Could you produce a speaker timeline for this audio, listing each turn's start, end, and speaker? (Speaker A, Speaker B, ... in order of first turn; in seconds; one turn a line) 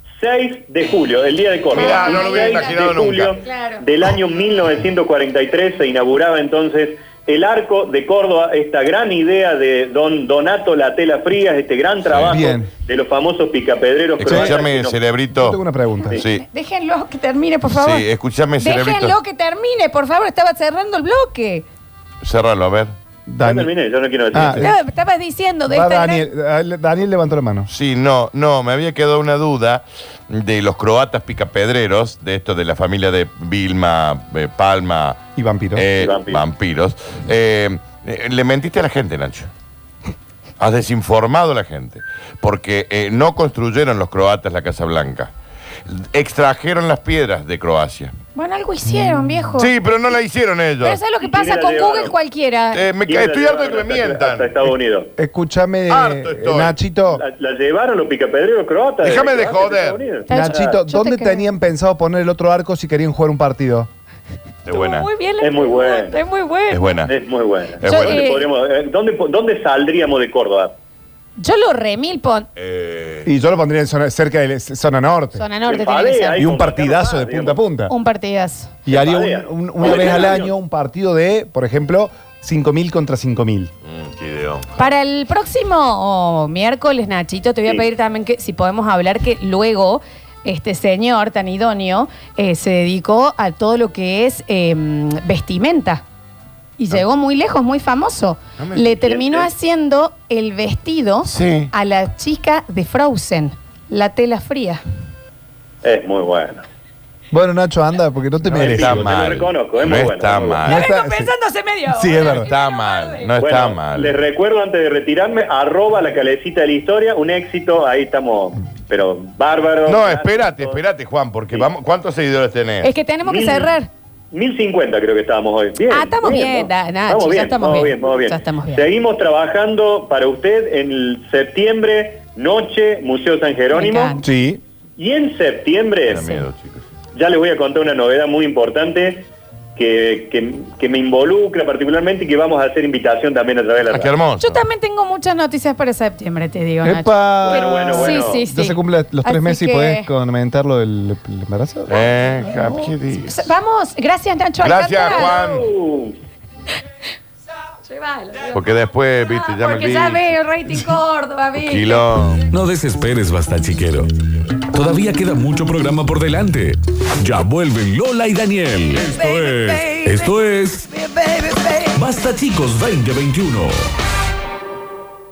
Speaker A: 0.2-15.0
Speaker B: 1.7-3.3
Speaker C: 1.7-2.7
Speaker C: 3.4-3.8
Speaker B: 12.1-12.4
Speaker D: 12.3-12.7
Speaker B: 14.2-15.6
Speaker D: 14.2-14.6
Speaker D: 15.3-16.2
Speaker B: 16.1-16.4
Speaker C: 16.4-18.1
Speaker B: 17.7-19.2
Speaker C: 18.6-21.6
Speaker B: 22.2-22.9
Speaker D: 23.3-23.7
Speaker A: 23.4-24.7
Speaker D: 24.3-24.8
Speaker C: 24.6-26.3
Speaker D: 25.7-27.7
Speaker B: 27.7-35.2
Speaker D: 35.4-35.9
Speaker B: 35.8-39.5
Speaker A: 36.0-36.4
Speaker B: 40.6-45.3
Speaker B: 45.9-48.1
Speaker C: 48.4-49.7
Speaker B: 49.6-51.0
Speaker C: 50.8-52.9
Speaker A: 51.2-52.1
Speaker B: 52.7-54.7
Speaker A: 53.1-55.1
Speaker D: 55.2-57.2
Speaker B: 55.9-56.8
Speaker A: 57.1-60.8
Speaker B: 59.0-60.0
Speaker C: 60.3-61.5
Speaker D: 60.3-63.9
Speaker B: 64.7-65.1
Speaker C: 64.7-66.9
Speaker A: 65.4-66.2
Speaker B: 66.7-67.1
Speaker A: 67.1-70.7
Speaker B: 67.8-68.2
Speaker C: 67.8-68.5
Speaker C: 71.4-72.5
Speaker B: 72.6-73.3
Speaker D: 73.2-75.5
Speaker C: 75.3-76.5
Speaker A: 75.7-77.6
Speaker D: 76.4-77.9
Speaker C: 77.9-78.8
Speaker A: 78.9-80.5
Speaker D: 78.9-83.7
Speaker B: 83.8-84.9
Speaker C: 84.8-96.0
Speaker C: 96.8-104.8
Speaker B: 98.6-98.9
Speaker A: 99.0-99.5
Speaker B: 101.2-101.7
Speaker A: 105.8-106.6
Speaker D: 107.3-109.2
Speaker B: 108.5-110.8
Speaker A: 108.5-110.7
Speaker D: 110.6-111.3
Speaker C: 110.7-113.3
Speaker D: 111.9-112.5
Speaker B: 112.3-114.1
Speaker A: 113.4-120.8
Speaker B: 119.9-122.9
Speaker C: 122.8-123.9
Speaker A: 123.3-123.7
Speaker A: 124.3-134.2
Speaker C: 125.9-128.9
Speaker C: 133.7-134.3
Speaker D: 134.2-134.6
Speaker A: 135.0-136.2
Speaker B: 136.1-136.8
Speaker A: 137.1-144.1
Speaker B: 143.9-144.6
Speaker C: 144.4-150.1
Speaker D: 146.8-152.0
Speaker A: 147.4-148.4
Speaker B: 151.9-153.4
Speaker C: 153.2-155.4
Speaker B: 154.6-155.7
Speaker A: 155.1-156.2
Speaker C: 157.9-162.1
Speaker B: 158.5-160.4
Speaker B: 161.6-162.5
Speaker E: 162.5-164.1
Speaker E: 164.7-170.9
Speaker C: 169.0-171.9
Speaker E: 171.9-173.8